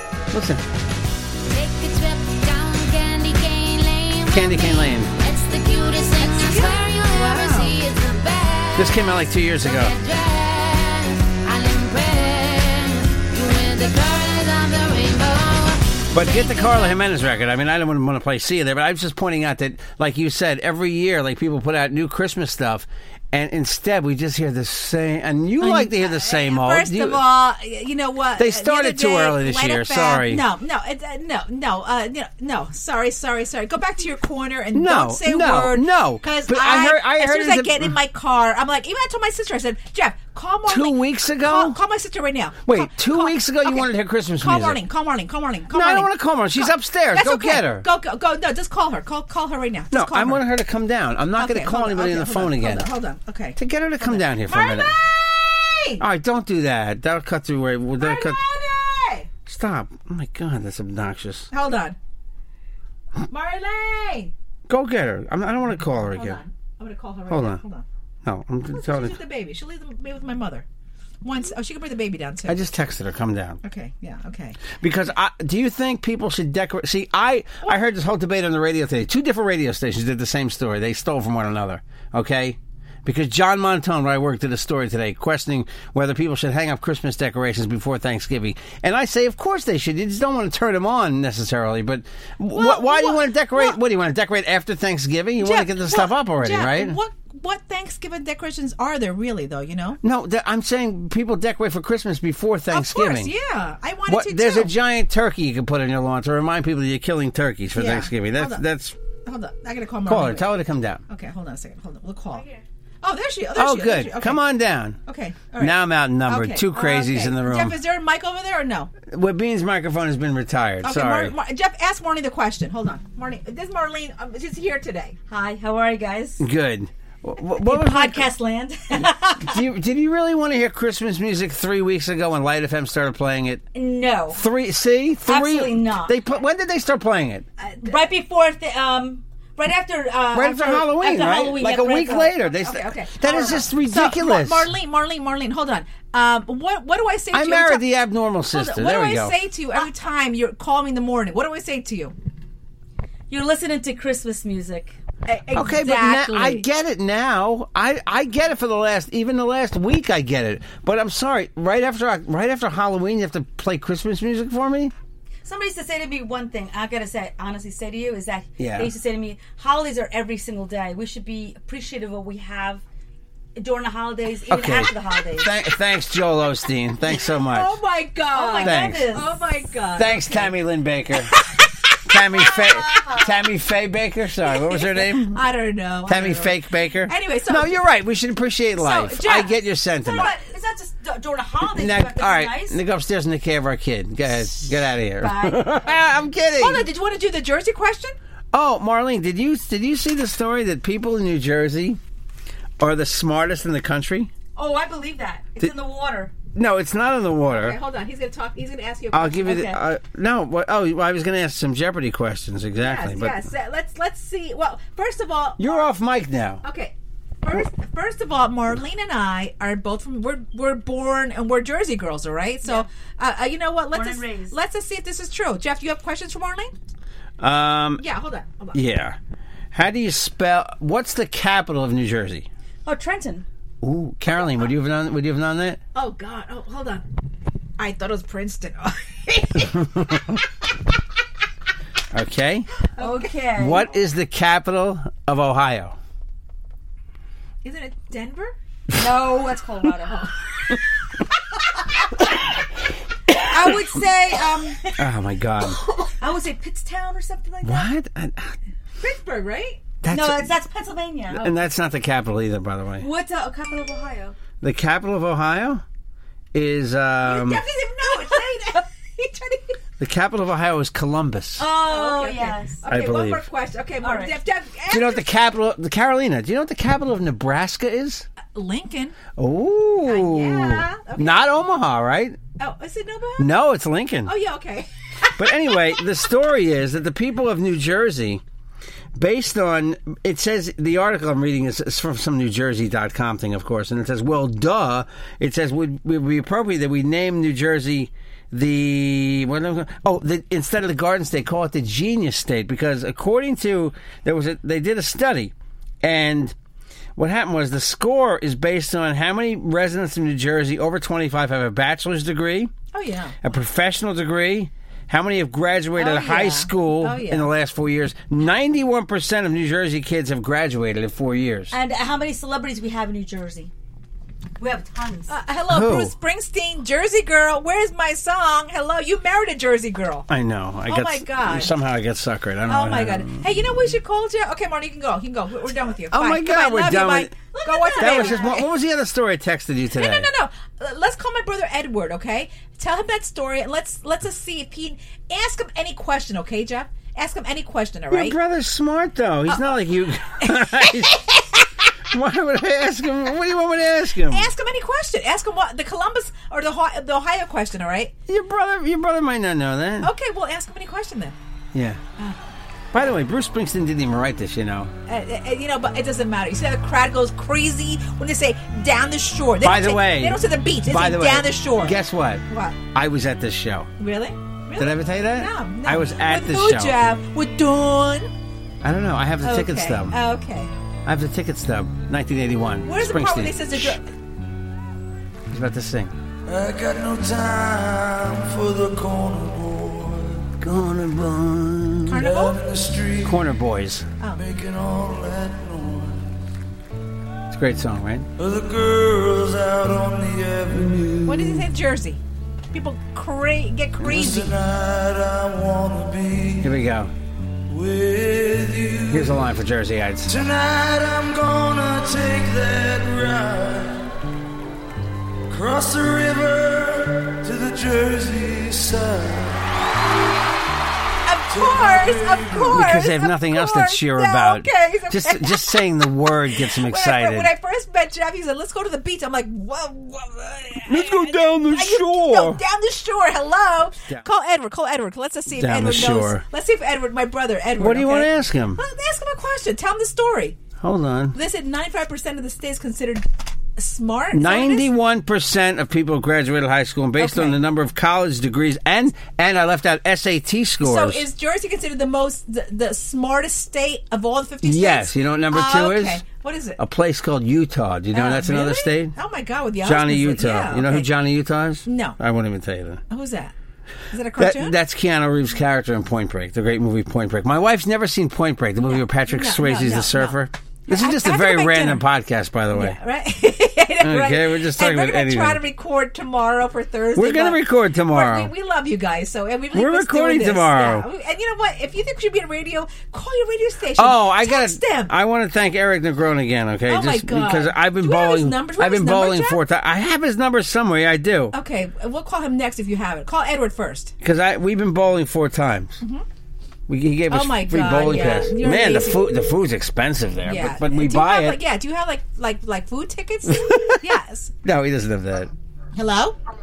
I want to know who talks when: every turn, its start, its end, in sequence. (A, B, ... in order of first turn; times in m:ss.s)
0:00.3-0:00.6 A
0:01.8-0:04.3 B
0:04.3-0:05.1 A
0:05.2-0:08.8 B
0:06.2-0:07.8 C
0:08.8-0:10.0 A
0:09.8-0:15.8 B
0:16.1-0:27.2 A
0:25.6-0:43.9 C
0:28.4-0:30.4 A
0:34.7-0:38.0 A
0:40.7-0:41.8 A
0:42.6-0:44.8 A
0:44.4-0:50.4 C
0:45.7-0:47.9 A
0:49.9-0:52.9 A
0:51.4-0:56.0 C
0:53.6-0:55.0 A
0:56.0-0:58.4 A
0:58.0-0:59.3 C
0:59.5-1:01.5 A
1:01.5-1:02.0 C
1:03.3-1:04.3 C
1:04.7-1:06.4 A
1:06.1-1:07.8 C
1:07.3-1:07.6 A
1:08.2-1:09.2 A
1:08.7-1:10.6 C
1:11.2-1:12.7 C
1:12.5-1:13.6 A
1:13.6-1:14.6 C
1:14.8-1:37.0 A
1:32.6-1:33.8 C
1:35.4-1:40.0 C
1:40.0-1:43.3 A
1:42.7-1:44.7 C
1:44.1-1:49.0 A
1:47.8-1:48.6 C
1:49.2-1:50.5 C
1:50.1-1:51.0 A
1:51.1-1:52.4 C
1:53.0-1:54.4 C
1:53.6-1:55.0 A
1:55.0-1:58.9 C
1:55.6-1:57.8 A
1:59.1-2:01.3 A
2:00.8-2:05.2 C
2:05.3-2:06.4 D
2:06.4-2:08.3 A
2:07.6-2:09.6 D
2:09.4-2:13.7 A
2:13.7-2:14.4 D
2:14.3-2:17.4 A
2:15.2-2:16.2 D
2:17.6-2:18.0 C
2:17.8-2:22.4 D
2:20.3-2:24.7 A
2:22.5-2:27.9 C
2:27.3-2:29.4 A
2:28.5-2:32.1 C
2:33.3-2:35.0 D
2:35.3-2:36.7 C
2:35.5-2:44.9 A
2:45.4-2:52.8 D
2:48.6-2:48.9 A
2:53.6-2:55.5 D
2:54.5-2:57.8 A
2:57.3-3:00.5 C
2:58.3-2:59.4 D
2:58.6-2:59.1 A
3:00.0-3:01.3 A
3:02.1-3:05.4 A
3:02.6-3:03.3 D
3:04.7-3:06.6 C
3:06.1-3:10.3 A
3:07.1-3:07.8 C
3:08.8-3:10.3 C
3:10.1-3:12.8 D
3:11.6-3:16.8 A
3:14.4-3:16.2 D
3:16.6-3:18.2 C
3:18.5-3:22.0 A
3:22.8-3:24.3 A
3:24.6-3:26.3 D
3:26.6-3:27.8 A
3:27.5-3:29.8 C
3:29.1-3:33.4 A
3:32.8-3:35.9 C
3:35.6-3:36.6 A
3:36.6-3:46.7 C
3:43.9-3:44.6 D
3:47.4-3:48.0 A
3:48.0-3:48.8 C
3:48.7-3:49.2 A
3:49.7-3:52.5 A
3:52.8-3:53.5 D
3:53.8-3:55.8 A
3:56.0-3:57.0 C
3:57.8-4:00.2 C
3:59.7-4:00.3 A
4:02.1-4:02.7 A
4:03.0-4:03.9 D
4:03.6-4:06.0 A
4:07.6-4:08.5 C
4:09.0-4:10.3 D
4:10.1-4:10.3 C
4:13.5-4:14.8 C
4:15.0-4:15.8 A
4:15.8-4:17.9 D
4:17.6-4:18.6 A
4:19.0-4:19.8 C
4:20.0-4:20.5 A
4:20.1-4:21.5 D
4:21.3-4:23.1 A
4:23.0-4:24.4 D
4:24.6-4:25.8 A
4:26.5-4:27.6 A
4:27.2-4:29.8 C
4:30.0-4:31.6 A
4:31.6-4:32.8 D
4:31.8-4:35.3 C
4:32.9-4:33.5 A
4:34.0-4:34.4 D
4:34.9-4:38.3 A
4:38.5-4:39.2 C
4:39.4-4:42.4 A
4:40.1-4:41.5 C
4:42.6-4:43.5 C
4:43.4-4:44.3 A
4:44.2-4:45.4 C
4:45.4-4:48.4 A
4:49.2-5:06.6 A
5:07.2-5:12.7 A
5:12.9-5:13.4 C
5:13.4-5:21.8 A
5:16.0-5:17.5 C
5:21.7-5:23.7 D
5:24.6-5:25.4 D
5:25.3-5:30.3 C
5:25.7-5:26.1 A
5:30.3-5:33.5 A
5:30.9-5:31.7 C
5:32.7-5:38.7 C
5:36.1-5:37.4 A
5:37.5-5:38.6 D
5:38.0-5:40.3 A
5:40.0-5:48.4 C
5:48.1-5:51.3 A
5:50.4-5:51.3 C
5:52.1-5:54.5 A
5:54.3-5:58.1 C
5:58.3-6:00.1 A
6:00.0-6:01.4 C
6:01.7-6:02.0 A
6:02.9-6:04.9 A
6:05.1-6:12.8 C
6:09.6-6:13.9 A
6:14.0-6:18.3 C
6:14.8-6:17.0 A
6:18.8-6:20.2 A
6:19.4-6:20.7 C
6:21.0-6:24.0 A
6:22.8-6:24.1 C
6:25.5-6:26.2 A
6:26.5-6:30.5 E
6:30.6-6:32.2 A
6:32.1-6:32.6 C
6:32.2-6:33.4 E
6:33.2-6:34.1 A
6:34.3-6:36.3 E
6:37.5-6:38.3 A
6:38.4-6:41.4 E
6:40.7-6:41.5 A
6:41.2-6:42.2 C
6:42.7-6:44.6 C
6:44.0-6:46.7 E
6:46.6-6:47.1 A
6:47.7-6:49.4 E
6:49.1-6:50.4 A
6:50.3-6:54.1 E
6:55.5-6:59.6 E
7:01.3-7:05.8 C
7:01.5-7:02.8 E
7:02.7-7:07.5 A
7:06.5-7:20.6 C
7:10.9-7:12.6 A
7:15.5-7:16.4 A
7:17.8-7:18.8 A
7:20.8-7:21.4 A
7:21.3-7:23.2 C
7:23.8-7:24.9 C
7:24.3-7:31.2 A
7:27.2-7:27.6 C
7:30.8-7:36.8 C
7:34.6-7:36.2 A
7:36.8-7:39.1 A
7:38.1-7:41.1 C
7:39.8-7:43.0 A
7:41.9-7:42.2 C
7:43.1-7:43.5 C
7:44.1-7:44.7 C
7:44.4-7:53.0 A
7:48.9-7:52.0 C
7:52.7-8:05.1 C
7:54.0-7:55.6 A
7:57.2-7:58.5 A
7:59.7-8:01.1 A
8:04.0-8:11.5 A
8:06.9-8:09.6 C
8:11.5-8:14.2 C
8:14.2-8:16.0 A
8:16.9-8:21.6 A
8:17.3-8:19.3 C
8:20.4-8:24.5 C
8:23.5-8:25.5 A
8:26.0-8:26.4 C